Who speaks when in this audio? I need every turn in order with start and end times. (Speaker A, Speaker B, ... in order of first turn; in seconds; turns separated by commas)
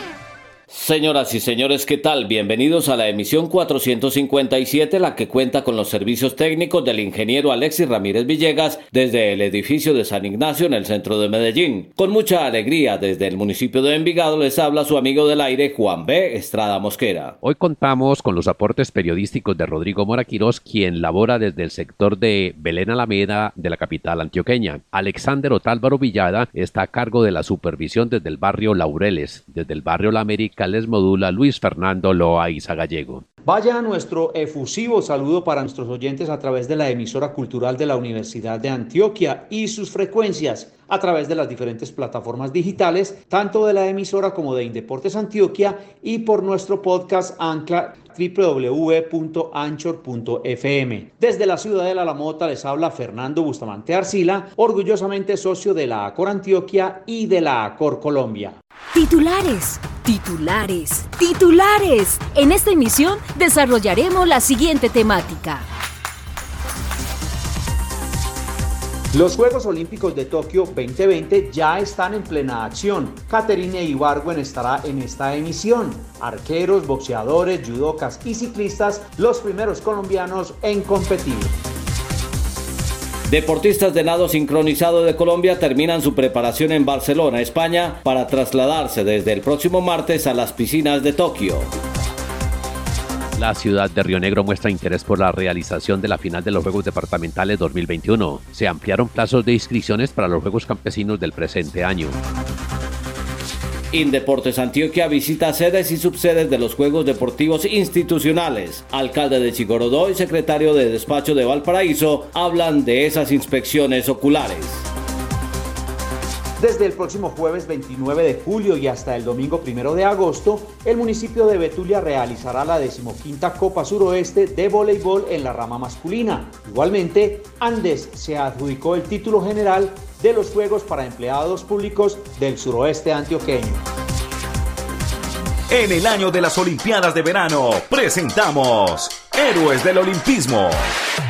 Speaker A: 0.7-17.3, Speaker B: 17.4-33.2, Speaker C: 33.4-58.6, Speaker D: 58.9-65.6, Speaker C: 69.1-81.5, Speaker A: 83.3-91.7, Speaker B: 93.4-102.2, Speaker A: 103.9-114.8, Speaker C: 116.6-133.8, Speaker E: 135.7-140.8